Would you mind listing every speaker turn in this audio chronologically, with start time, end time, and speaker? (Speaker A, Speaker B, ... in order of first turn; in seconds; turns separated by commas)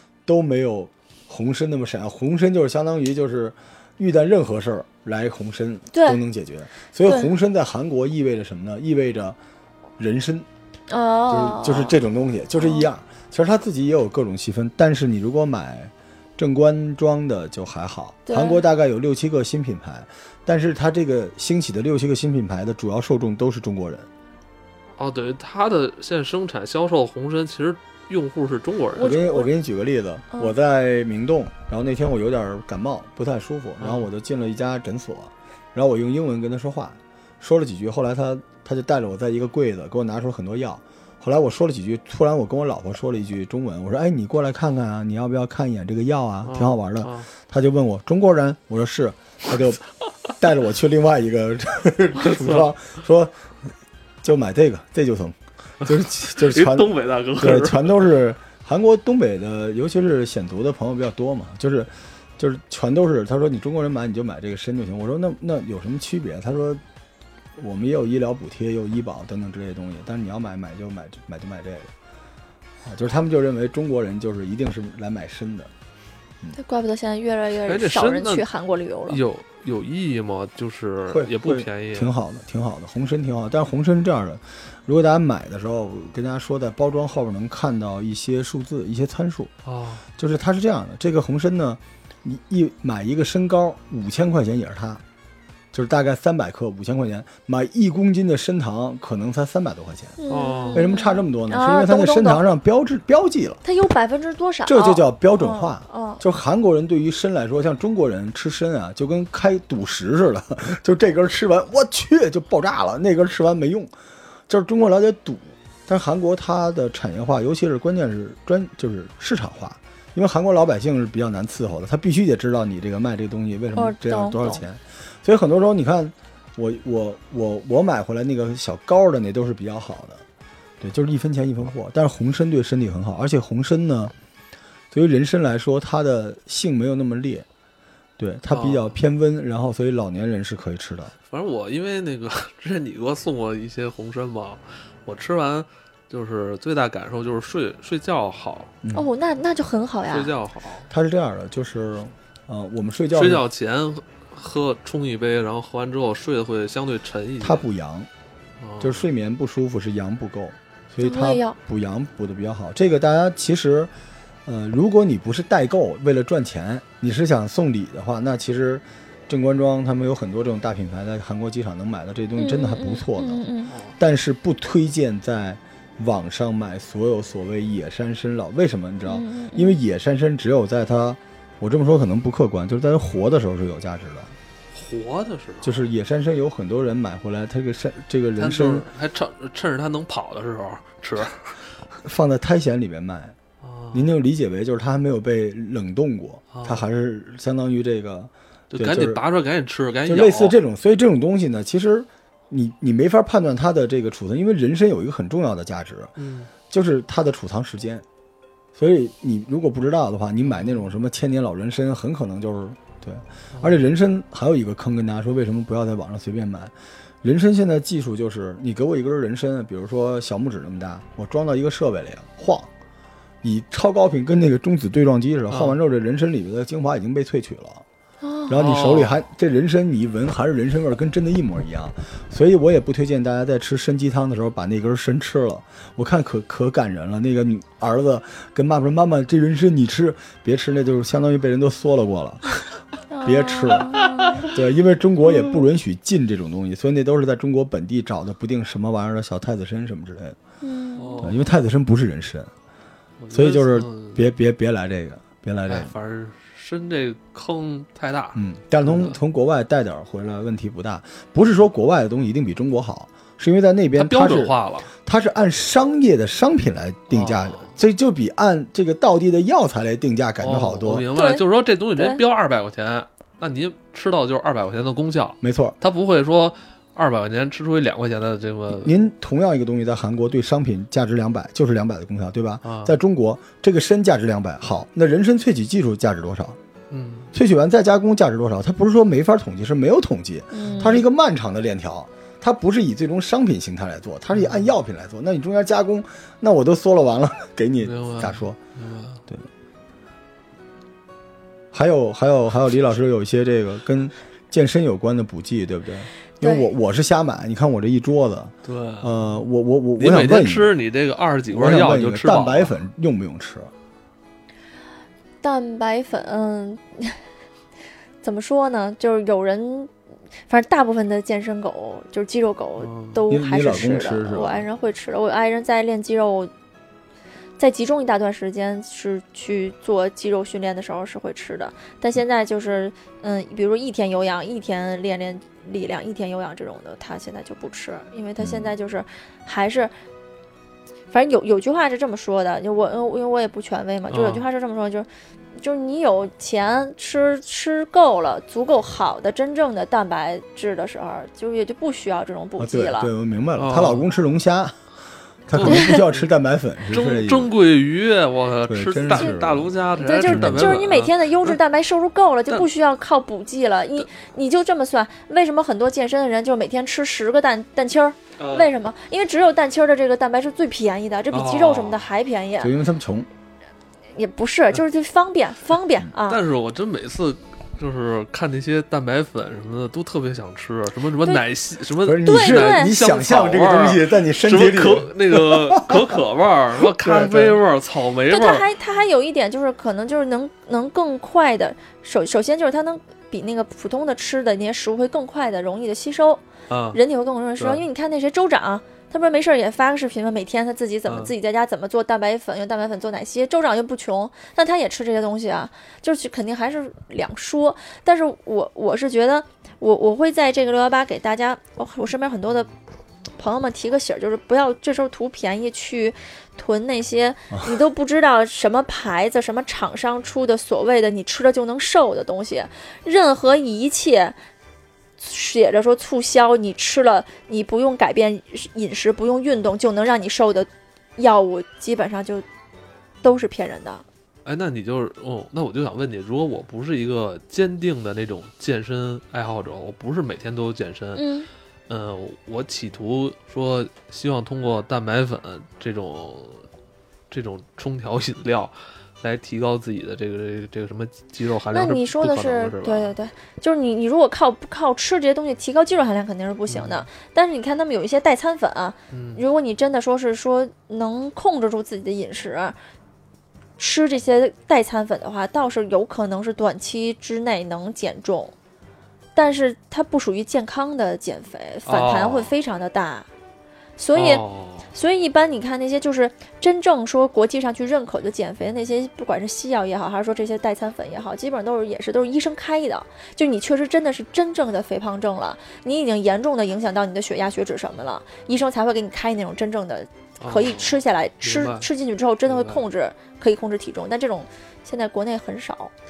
Speaker A: 0.3-9.4, Speaker B: 5.9-6.2, Speaker A: 10.0-10.5, Speaker B: 10.9-11.9, Speaker A: 11.3-24.1, Speaker B: 12.6-12.9, Speaker B: 18.3-18.6, Speaker C: 25.0-29.2, Speaker B: 29.0-29.5, Speaker A: 29.0-53.4, Speaker C: 33.8-34.1, Speaker C: 46.4-47.3, Speaker C: 52.2-52.7, Speaker A: 54.2-66.8, Speaker C: 56.4-58.1, Speaker A: 67.6-71.9, Speaker A: 72.8-75.7, Speaker B: 76.5-79.2, Speaker C: 77.6-78.5, Speaker C: 79.1-82.1, Speaker A: 81.1-89.5, Speaker C: 89.7-90.0, Speaker A: 90.2-95.0, Speaker A: 95.7-100.2, Speaker B: 100.2-102.4, Speaker C: 100.3-100.8, Speaker A: 100.7-103.6, Speaker B: 103.6-106.2, Speaker A: 104.7-113.9, Speaker A: 114.5-130.2, Speaker B: 123.8-124.6, Speaker A: 130.8-134.1, Speaker A: 134.9-137.5, Speaker A: 138.2-141.1, Speaker C: 138.5-139.0, Speaker C: 141.3-148.7, Speaker B: 148.9-150.3, Speaker C: 150.1-150.9, Speaker A: 150.9-153.4, Speaker C: 153.1-157.7, Speaker A: 157.4-158.1, Speaker C: 158.6-159.1, Speaker A: 158.8-163.9, Speaker B: 161.0-161.6, Speaker A: 164.5-173.4, Speaker B: 172.4-173.8, Speaker C: 173.7-174.0, Speaker A: 174.0-184.3, Speaker B: 179.1-179.8, Speaker C: 184.7-185.8, Speaker A: 185.6-188.8, Speaker C: 188.4-191.6, Speaker A: 192.0-193.4, Speaker C: 193.6-194.1, Speaker A: 193.9-199.2, Speaker C: 196.5-196.8, Speaker C: 198.7-200.6, Speaker A: 200.1-206.1, Speaker C: 206.2-206.5, Speaker A: 206.7-208.0, Speaker A: 208.8-222.7, Speaker C: 210.5-210.8, Speaker C: 213.5-213.8, Speaker A: 223.4-227.8, Speaker C: 225.5-225.8, Speaker B: 228.2-228.6, Speaker A: 228.5-242.5, Speaker C: 228.5-229.2, Speaker B: 243.1-244.5, Speaker A: 243.2-250.4, Speaker C: 244.0-244.4, Speaker B: 250.6-251.3, Speaker C: 251.0-251.4, Speaker A: 251.2-252.5, Speaker C: 253.2-254.2, Speaker A: 253.3-255.9, Speaker C: 255.7-259.2, Speaker A: 258.4-271.1, Speaker C: 264.0-264.9, Speaker C: 267.1-267.7, Speaker C: 270.4-278.9, Speaker B: 271.1-271.4, Speaker B: 272.0-272.2, Speaker A: 275.4-275.8, Speaker A: 278.7-286.6, Speaker C: 282.6-282.9, Speaker C: 286.9-287.3, Speaker A: 287.3-298.6, Speaker B: 290.5-291.0, Speaker C: 294.3-294.7, Speaker C: 297.8-299.2, Speaker A: 301.7-310.7, Speaker B: 306.4-306.7, Speaker C: 308.6-309.1, Speaker C: 310.0-312.7, Speaker A: 311.5-313.7, Speaker B: 315.4-317.2, Speaker B: 318.2-319.9, Speaker B: 320.5-326.5, Speaker C: 322.8-323.2, Speaker A: 323.3-324.6, Speaker B: 327.6-339.9, Speaker A: 338.4-338.7, Speaker B: 341.1-345.1, Speaker C: 344.1-344.5, Speaker B: 345.6-353.1, Speaker A: 352.6-354.8, Speaker C: 353.6-354.1, Speaker A: 355.5-357.5, Speaker C: 355.5-356.2, Speaker B: 355.6-356.0, Speaker C: 356.9-361.6, Speaker A: 358.7-359.7, Speaker B: 359.1-359.4, Speaker B: 359.9-372.7, Speaker A: 360.2-360.8, Speaker C: 368.4-368.7, Speaker C: 371.3-372.0, Speaker A: 372.6-373.3, Speaker B: 374.1-376.4, Speaker C: 376.3-388.7, Speaker A: 382.0-386.2, Speaker B: 382.2-382.9, Speaker A: 386.8-387.6, Speaker B: 388.3-396.4, Speaker C: 396.7-397.0, Speaker B: 396.9-412.7, Speaker C: 397.6-397.9, Speaker C: 401.1-401.3, Speaker B: 413.4-424.4, Speaker B: 425.2-432.4, Speaker B: 433.2-434.0, Speaker C: 434.4-441.3, Speaker B: 441.2-441.5, Speaker C: 441.9-446.6, Speaker C: 447.3-453.1, Speaker B: 451.7-462.8, Speaker C: 456.7-457.1, Speaker C: 459.1-459.4, Speaker B: 463.8-468.5, Speaker B: 469.4-473.3, Speaker C: 471.9-472.6, Speaker B: 474.0-495.9, Speaker C: 474.1-474.9, Speaker C: 490.4-491.9, Speaker C: 492.5-492.8